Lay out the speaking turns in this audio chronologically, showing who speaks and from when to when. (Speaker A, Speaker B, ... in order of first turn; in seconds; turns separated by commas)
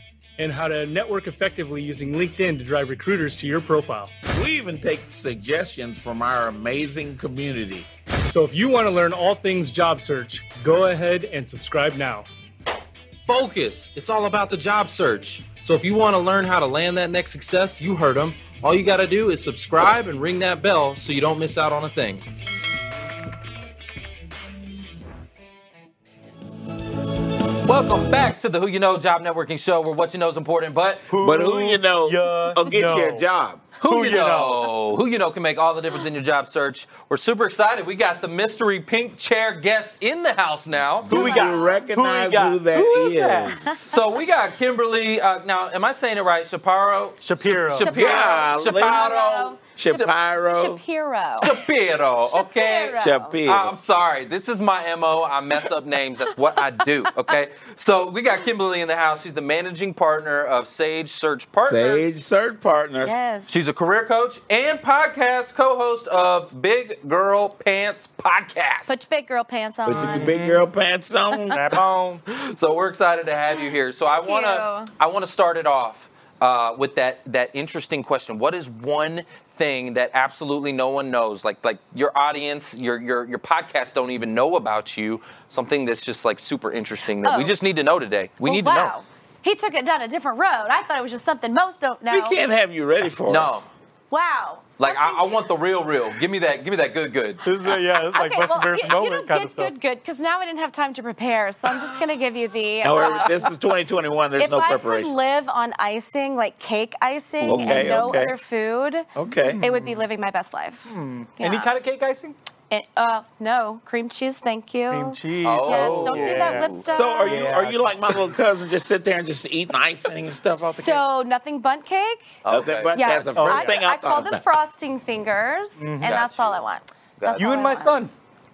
Speaker A: 0.4-4.1, Speaker B: 4.3-7.9, Speaker A: 8.2-12.3, Speaker C: 13.2-22.2, Speaker C: 27.6-31.1, Speaker A: 31.1-33.2, Speaker B: 31.2-33.6, Speaker C: 33.8-41.1, Speaker A: 33.8-34.7, Speaker B: 41.0-43.7, Speaker A: 41.1-43.8, Speaker D: 41.1-41.8, Speaker C: 43.8-50.1, Speaker A: 47.2-47.9, Speaker D: 47.8-49.6, Speaker B: 47.8-49.1, Speaker B: 49.7-50.8, Speaker D: 50.4-51.5, Speaker C: 51.4-62.1, Speaker D: 52.3-53.3, Speaker B: 53.0-53.7, Speaker B: 61.6-63.1, Speaker D: 63.0-63.5, Speaker C: 63.5-69.0, Speaker D: 68.9-70.4, Speaker B: 69.8-71.6, Speaker A: 69.9-70.7, Speaker A: 71.5-72.2, Speaker C: 72.3-89.0, Speaker D: 74.1-74.9, Speaker D: 87.2-87.5, Speaker D: 88.4-92.4, Speaker B: 92.1-93.6, Speaker C: 93.3-93.7, Speaker D: 94.1-95.3, Speaker C: 94.8-97.4, Speaker A: 97.4-99.7, Speaker D: 98.1-103.5, Speaker B: 102.8-105.1, Speaker D: 104.4-109.1, Speaker B: 107.4-108.3, Speaker A: 107.4-108.1, Speaker B: 109.2-109.6, Speaker A: 109.5-110.0, Speaker D: 109.6-111.7, Speaker A: 110.9-112.3, Speaker D: 112.7-117.4, Speaker A: 114.9-118.2, Speaker C: 115.4-116.8, Speaker B: 116.9-121.0, Speaker D: 120.7-122.3, Speaker C: 122.4-123.3, Speaker B: 122.5-124.4, Speaker D: 122.9-128.0, Speaker A: 123.3-123.8, Speaker A: 125.8-126.2, Speaker C: 126.0-126.6, Speaker C: 127.2-127.7, Speaker A: 127.4-128.1